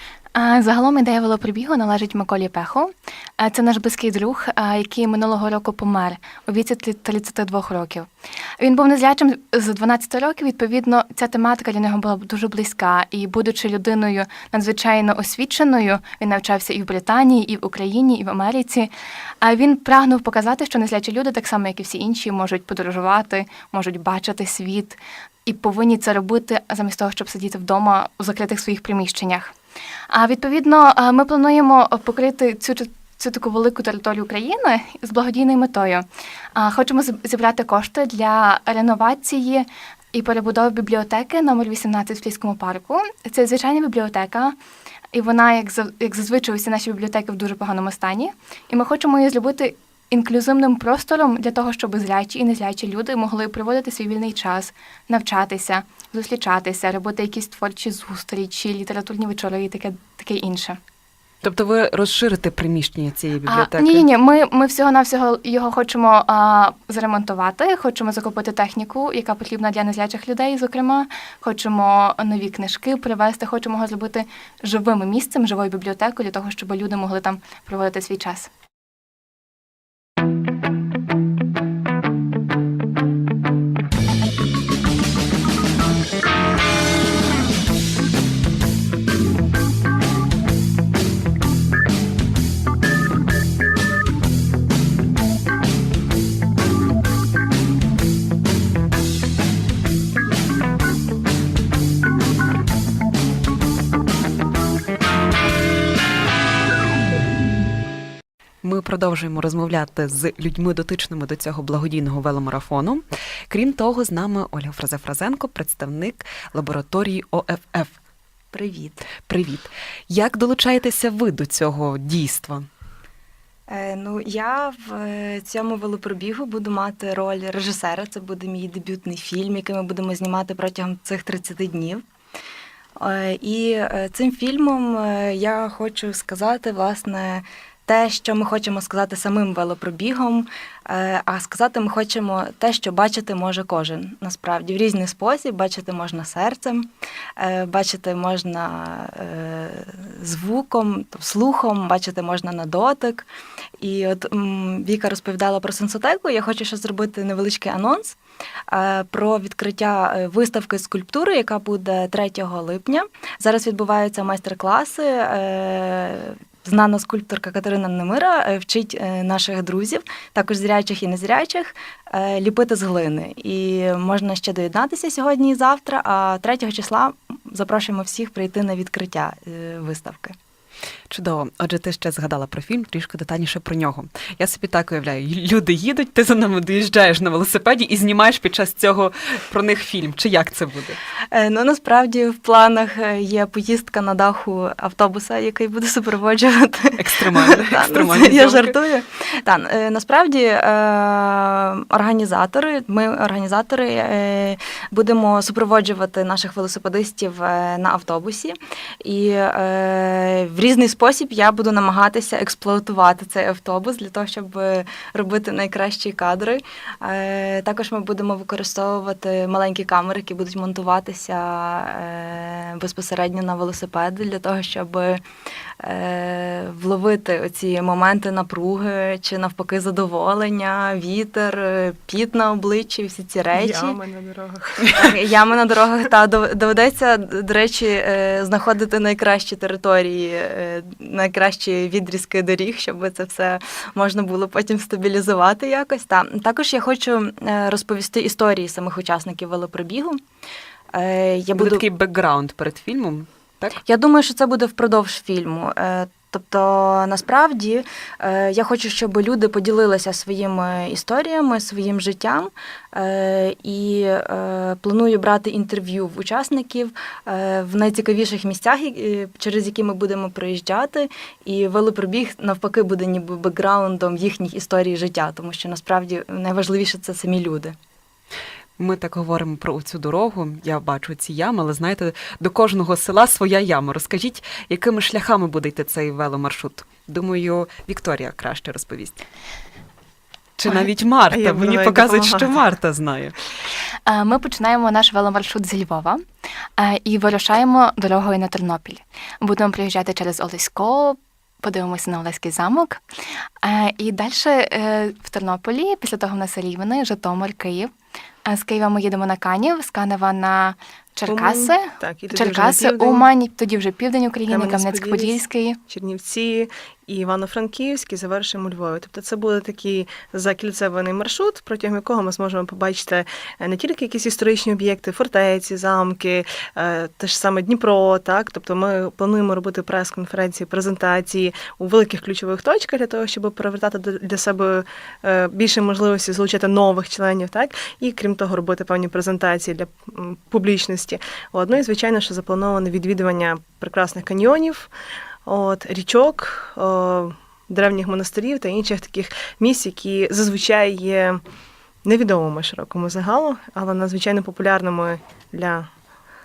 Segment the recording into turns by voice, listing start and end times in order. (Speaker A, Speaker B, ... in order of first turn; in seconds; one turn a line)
Speaker A: 0.3-8.1
Speaker A: 8.6-18.9
Speaker A: 19.4-29.5
Speaker A: 30.1-44.6
Speaker A: 45.1-60.8
Speaker B: 61.4-64.0
Speaker A: 63.5-78.5
Speaker B: 108.6-118.0
Speaker C: 118.5-119.1
Speaker B: 119.2-122.7
Speaker C: 123.7-132.0
Speaker C: 133.0-153.3
Speaker C: 153.8-158.2
Speaker C: 158.7-180.4
Speaker B: 181.1-191.0
Speaker C: 191.3-225.2
Speaker B: 197.0-198.8
Speaker C: 225.8-234.0
Speaker D: 233.5-235.1
Speaker C: 234.9-250.2
Speaker C: 250.9-251.9
Speaker B: 251.6-253.8
Speaker C: 253.9-277.8
Speaker B: 278.8-289.2
Speaker B: 290.6-293.4
Speaker D: 291.3-292.6
Speaker A: 294.1-296.2
Speaker A: 296.8-303.0
Speaker A: 303.6-307.9
Speaker A: 308.4-315.8
Speaker D: 311.3-313.3
Speaker D: 314.5-315.4
Speaker D: 315.9-344.9
Speaker D: 345.5-351.4
Speaker D: 352.1-355.9